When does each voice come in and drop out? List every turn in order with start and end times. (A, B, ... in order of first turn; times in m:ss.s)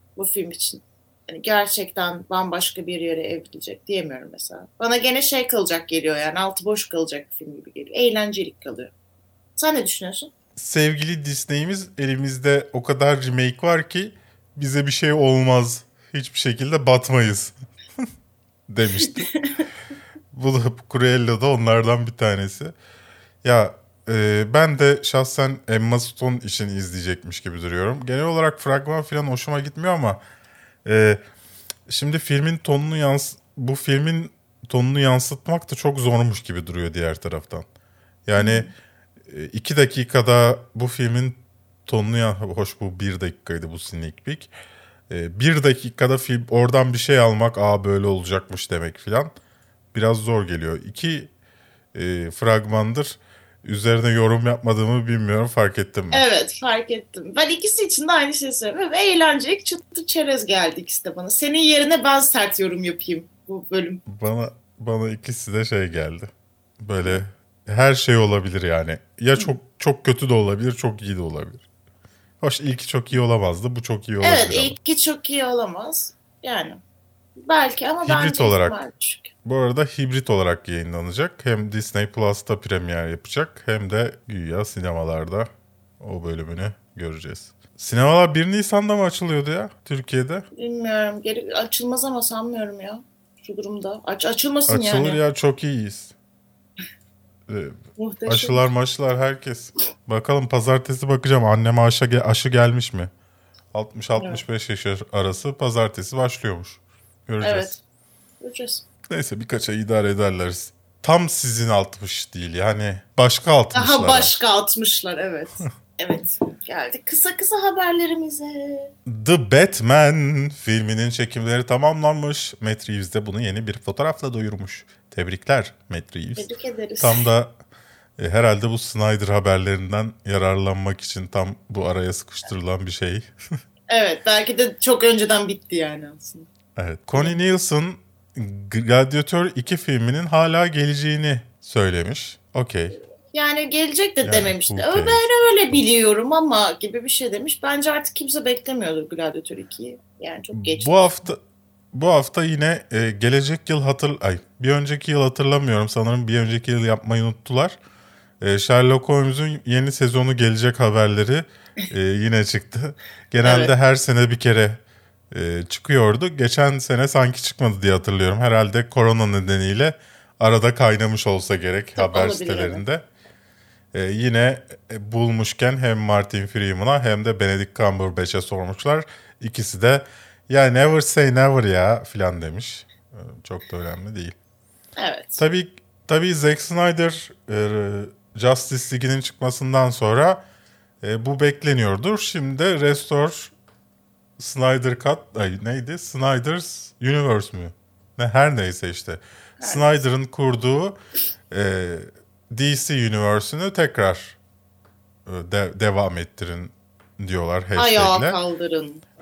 0:00.2-0:08.9 A
0:09.6-0:10.3 A
0:10.6-0:17.5 B
0:18.7-0:19.3 B
0:20.3-0:22.7 B
0:23.4-0:30.2 B
0:30.8-0:31.2 B
0:31.9-0:37.7 B
0:38.3-0:38.7 B
0:38.4-0:38.7 A
0:39.3-0:44.5 B
0:45.1-0:49.3 B
0:49.9-0:51.3 B
0:51.9-0:56.2 B
0:56.1-1:04.0 A
1:04.1-1:11.6 B
1:12.4-1:14.8 B
1:14.2-1:16.8 A
1:17.4-1:19.3 A
1:18.0-1:18.8 B
1:19.4-1:25.5 B
1:26.0-1:30.5 B
1:30.6-1:35.2 A
1:34.7-1:36.1 B
1:37.5-1:43.1 B
1:38.0-1:38.6 A
1:43.7-1:47.8 B
1:44.2-1:44.4 A
1:47.4-1:47.7 A
1:48.4-1:48.8 A
1:49.1-1:54.3 B
1:53.7-1:58.9 A
1:59.1-2:07.6 B
2:06.4-2:07.2 A
2:08.2-2:13.3 B
2:13.9-2:16.5 A
2:16.8-2:23.0 B
2:23.3-2:31.1 A
2:24.2-2:25.2 B
2:30.5-2:31.4 B
2:31.9-2:37.8 B
2:38.4-2:44.8 B
2:43.4-2:43.7 A
2:45.3-2:53.0 B
2:52.0-2:52.8 A
2:53.9-3:04.4 B
3:05.0-3:05.4 A
3:05.4-3:10.4 B
3:11.0-3:13.5 B
3:14.4-3:21.0 B
3:19.6-3:19.9 A
3:21.5-3:24.4 B
3:25.3-3:28.4 B
3:27.8-3:29.0 A